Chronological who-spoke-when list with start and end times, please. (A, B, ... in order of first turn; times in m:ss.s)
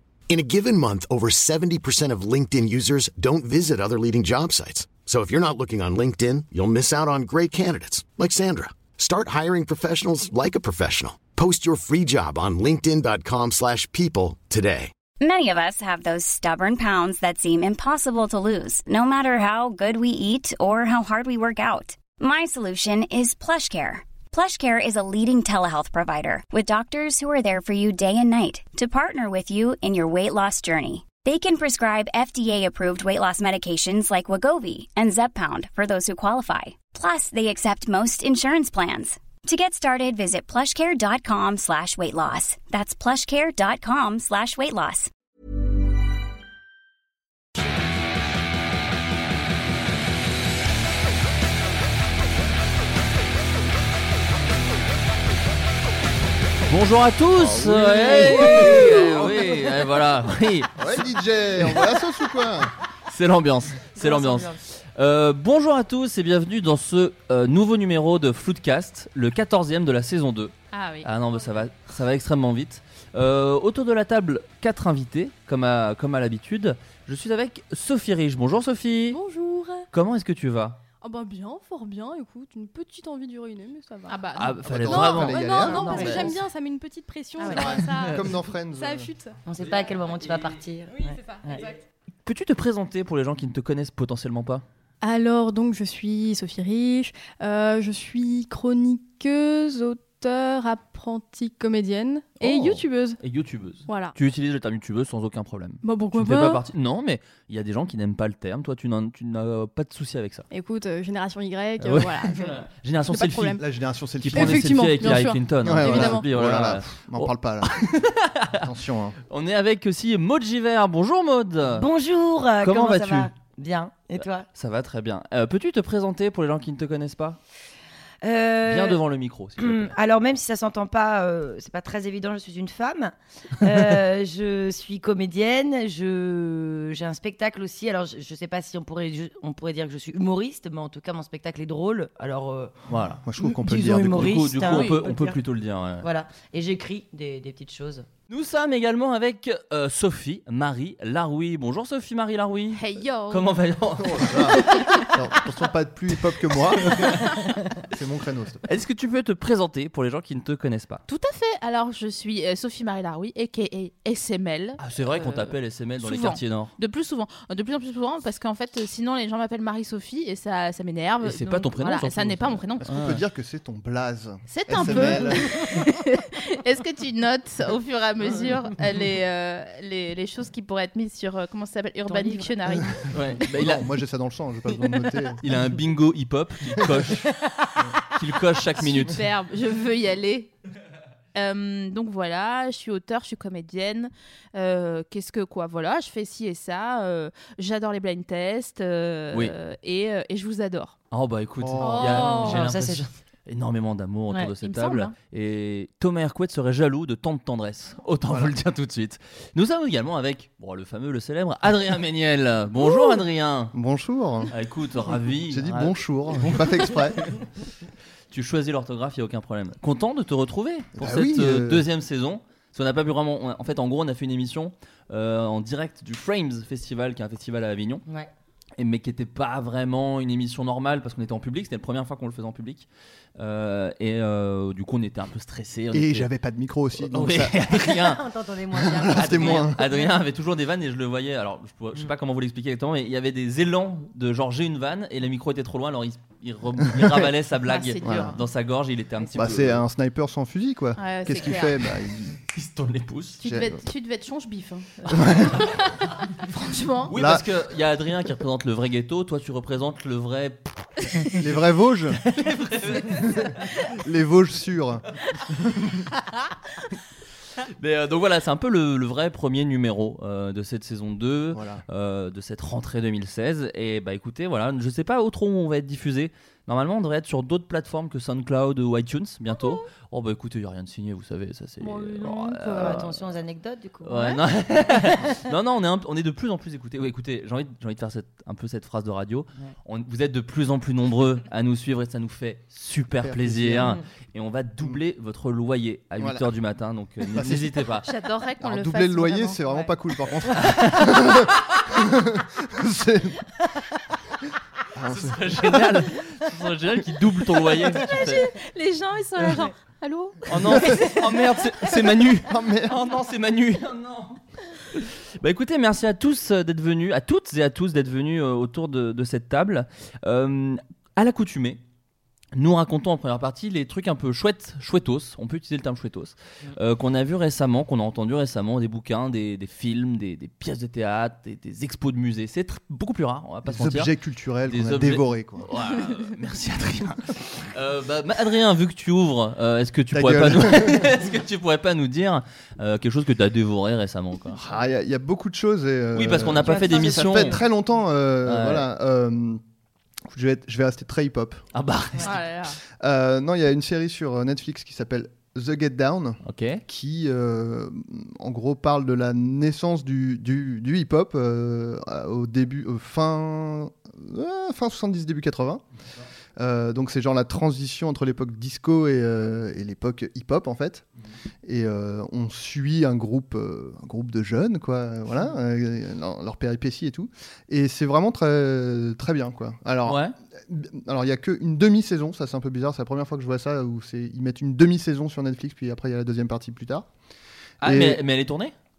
0:00.3-0:14.9 A
0:15.2-0:45.1 B
0:56.7-1:00.8 C
0:57.4-0:59.5 D
1:00.8-1:02.7 D
1:03.1-1:19.2 C
1:04.0-1:04.5 E
1:10.7-1:11.1 E
1:19.1-1:19.9 F
1:19.9-1:20.8 C
1:21.0-1:24.2 F
1:24.1-1:24.6 E
1:24.4-1:26.3 C
1:24.6-1:26.3 D
1:24.8-1:28.2 F
1:25.9-1:26.2 G
1:27.4-1:27.8 E
1:27.4-1:27.7 G
1:28.0-1:29.1 D
1:28.7-1:29.3 F
1:29.5-1:31.7 G
1:31.0-1:31.8 F
1:32.2-1:34.6 C
1:35.0-1:43.2 F
1:42.4-1:50.4 C
1:43.9-1:44.2 F
1:45.8-1:46.6 F
1:50.5-1:53.6 F
1:51.8-1:53.6 C
1:53.6-1:55.1 D
1:54.2-1:58.7 C
1:54.3-1:56.2 F
1:55.6-1:57.8 D
1:58.5-1:59.2 D
1:59.3-2:01.9 C
2:01.7-2:04.4 G
2:02.6-2:03.3 C
2:04.5-2:07.4 C
2:08.2-2:09.0 G
2:08.6-2:09.9 C
2:09.6-2:22.7 G
2:22.9-2:23.2 C
2:23.2-2:24.4 D
2:23.4-2:25.4 G
2:24.1-2:26.1 C
2:24.7-2:25.0 E
2:26.0-2:28.1 G
2:28.3-2:35.0 C
2:32.7-2:33.5 E
2:34.0-2:37.2 D
2:36.8-2:37.3 C
2:37.9-2:38.6 D
2:38.6-2:41.0 C
2:41.1-2:52.9 E
2:44.8-2:46.7 C
2:51.2-2:53.2 C
2:52.8-2:55.6 D
2:54.5-3:03.1 E
2:54.8-2:55.1 F
3:02.1-3:02.5 F
3:03.1-3:03.8 C
3:03.4-3:05.4 D
3:05.4-3:07.4 C
3:08.1-3:09.2 C
3:08.8-3:10.5 E
3:11.3-3:21.0 E
3:21.1-3:33.7 C
3:21.6-3:22.4 D
3:21.8-3:22.5 E
3:22.2-3:23.1 G
3:24.6-3:25.1 E
3:28.3-3:28.5 D
3:33.7-3:34.5 D
3:34.5-3:37.4 C
3:35.5-3:37.3 D
3:38.3-3:48.0 C
3:41.0-3:41.8 D
3:48.8-3:56.3 C
3:55.9-3:57.6 D
3:57.0-3:58.2 C
3:57.8-4:00.1 G
3:58.9-3:59.8 D
3:59.0-4:09.8 C
4:07.0-4:07.2 D
4:07.7-4:08.4 E
4:08.0-4:08.4 D
4:09.2-4:09.4 G
4:09.3-4:12.4 D
4:11.0-4:11.8 E
4:12.5-4:13.4 C
4:13.4-4:17.1 E
4:13.4-4:13.8 D
4:15.1-4:15.7 D
4:17.1-4:21.5 C
4:17.1-4:17.5 D
4:21.4-4:22.2 D
4:22.2-4:23.7 C
4:24.0-4:25.0 D
4:27.8-4:43.3 C
4:31.5-4:31.8 D
4:41.8-4:45.3 G
4:44.0-4:58.1 C
4:53.2-4:54.0 D
4:56.2-4:56.4 D
4:57.3-4:57.7 D
4:58.0-4:59.9 E
4:58.6-5:03.4 D
5:00.5-5:01.8 C
5:04.9-5:06.0 D
5:05.1-5:08.5 C
5:08.0-5:11.4 E
5:10.5-5:14.4 C
5:12.5-5:13.0 D
5:14.9-5:21.8 C
5:22.5-5:34.1 C
5:33.6-5:35.7 D
5:34.7-5:44.6 C
5:40.1-5:41.1 D
5:44.5-5:49.6 D
5:46.1-5:47.6 C
5:46.6-5:47.6 G
5:48.4-5:48.8 C
5:50.3-5:51.6 D
5:51.7-5:52.3 C
5:52.2-5:52.8 E
5:53.0-6:05.8 D
5:56.4-5:56.8 C
6:06.6-6:11.0 D
6:11.6-6:27.1 D
6:20.0-6:20.3 C
6:27.8-6:28.7 C
6:27.8-6:28.2 D